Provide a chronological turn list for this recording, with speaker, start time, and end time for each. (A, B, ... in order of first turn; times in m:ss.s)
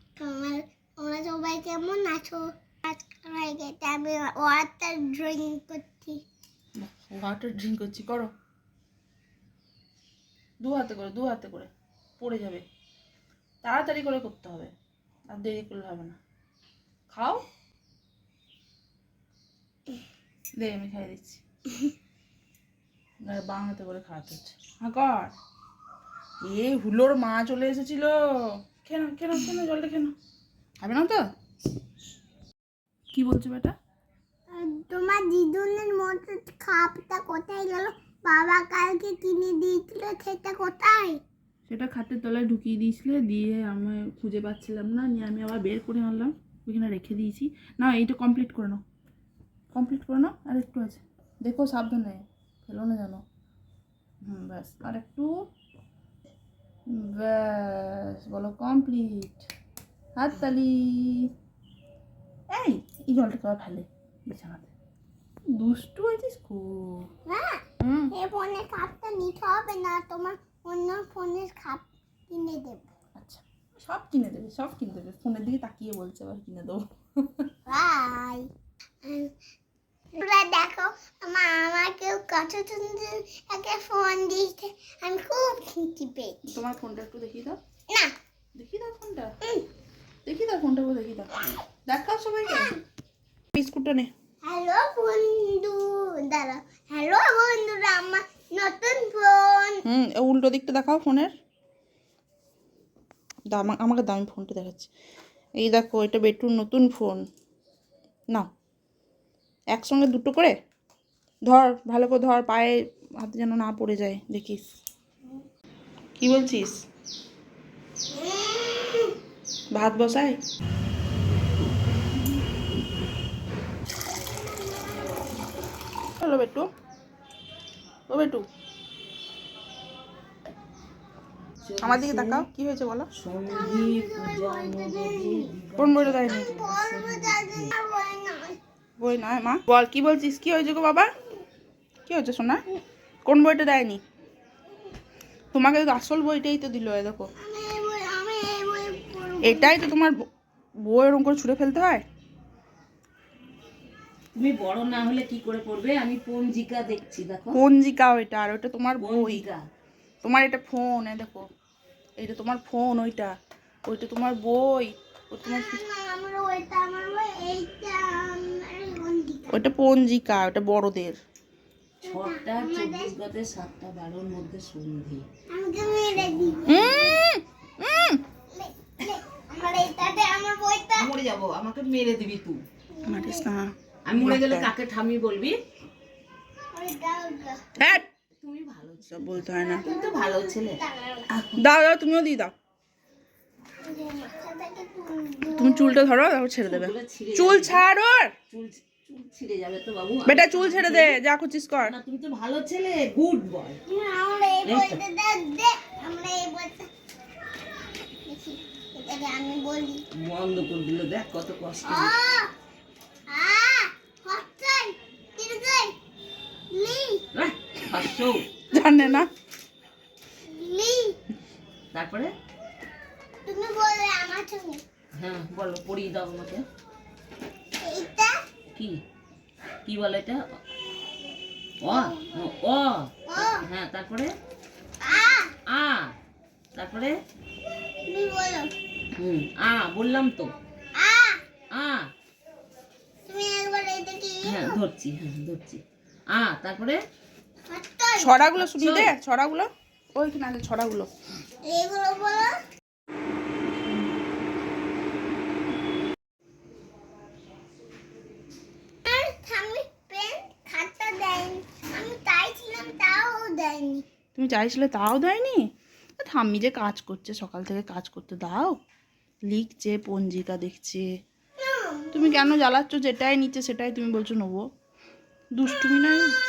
0:00.2-0:06.2 A
0:06.8-0:08.3 B
0:10.6-0:12.6 B
0:13.6-0:14.7 B
0:15.3-0:16.2 B
0:17.1-0:17.4 B
0:20.6-0:21.4 B
0:23.2-0:25.3 B
0:26.4-0:30.1 B
0:30.8-0:31.2 B
0:33.1-0:33.7 B
0:34.5-0:41.2 A
0:41.7-0:48.8 B
0:49.7-0:53.2 B
0:54.2-0:55.3 B
0:56.9-0:59.5 B
1:00.2-1:01.3 B
1:02.5-1:04.7 B
1:05.5-1:07.1 B
1:07.3-1:12.8 A
1:07.8-1:08.1 B
1:13.2-1:17.5 B
1:17.7-1:18.5 A
1:19.0-1:19.3 A
1:20.1-1:26.4 A
1:26.4-1:27.6 B
1:28.5-1:29.3 B
1:30.2-1:31.4 B
1:31.9-1:32.8 B
1:33.5-1:34.1 B
1:34.4-1:39.8 A
1:39.8-1:41.3 B
1:43.5-1:44.9 B
1:45.6-1:47.2 B
1:49.7-1:50.5 B
1:51.4-1:54.6 B
1:56.2-1:56.8 B
1:58.1-1:59.2 A
1:59.7-2:00.4 B
2:04.5-2:05.2 A
2:06.2-2:06.7 B
2:08.1-2:08.4 B
2:11.6-2:12.4 C
2:11.8-2:13.1 B
2:13.2-2:17.7 C
2:13.5-2:15.5 A
2:15.8-2:16.5 B
2:16.2-2:18.6 A
2:19.0-2:21.1 B
2:22.0-2:22.6 B
2:23.2-2:24.0 B
2:25.5-2:27.3 B
2:27.4-2:29.8 A
2:29.4-2:30.2 B
2:30.8-2:32.0 B
2:34.3-2:37.6 C
2:37.5-2:39.4 B
2:39.0-2:39.6 C
2:40.2-2:41.5 B
2:42.2-2:43.3 B
2:43.9-2:45.8 B
2:45.4-2:49.6 A
2:49.5-2:51.2 B
2:52.0-2:53.1 A
2:52.0-2:55.2 C
2:55.5-2:57.2 A
2:56.2-2:56.6 C
2:56.7-2:58.2 B
2:58.5-3:01.1 A
3:01.0-3:02.6 C
3:02.9-3:03.5 A
3:03.1-3:04.7 B
3:04.0-3:05.6 C
3:06.7-3:07.6 A
3:07.8-3:08.1 B
3:08.4-3:11.6 C
3:09.0-3:09.8 B
3:09.6-3:11.3 A
3:11.6-3:12.5 B
3:13.8-3:16.0 A
3:15.5-3:18.3 B
3:16.6-3:17.8 C
3:18.5-3:21.2 C
3:20.2-3:21.9 B
3:21.8-3:23.8 C
3:23.9-3:26.9 A
3:24.6-3:25.0 C
3:28.2-3:30.0 A
3:30.2-3:32.2 C
3:31.8-3:32.5 A
3:33.3-3:35.9 A
3:36.7-3:37.2 A
3:37.3-3:38.4 C
3:38.7-3:39.3 B
3:38.8-3:39.2 A
3:40.5-3:41.2 A
3:41.9-3:42.3 C
3:43.4-3:44.8 A
3:45.2-3:46.6 C
3:47.8-3:48.4 A
3:48.7-3:49.0 C
3:49.8-3:50.4 C
3:51.8-3:54.3 C
3:51.9-3:52.3 A
3:53.3-3:53.6 A
3:55.0-3:55.5 A
3:55.6-3:56.1 C
3:56.7-3:57.2 C
3:58.1-3:58.7 A
3:59.2-4:00.5 C
4:01.0-4:01.4 A
4:01.7-4:02.1 C
4:03.2-4:04.8 A
4:04.4-4:07.0 C
4:07.7-4:08.4 A
4:08.2-4:11.1 B
4:08.6-4:09.1 C
4:11.6-4:12.6 A
4:19.0-4:24.0 A
4:24.3-4:28.8 B
4:29.4-4:31.1 B
4:31.6-4:32.5 A
4:32.1-4:34.6 B
4:35.5-4:36.4 B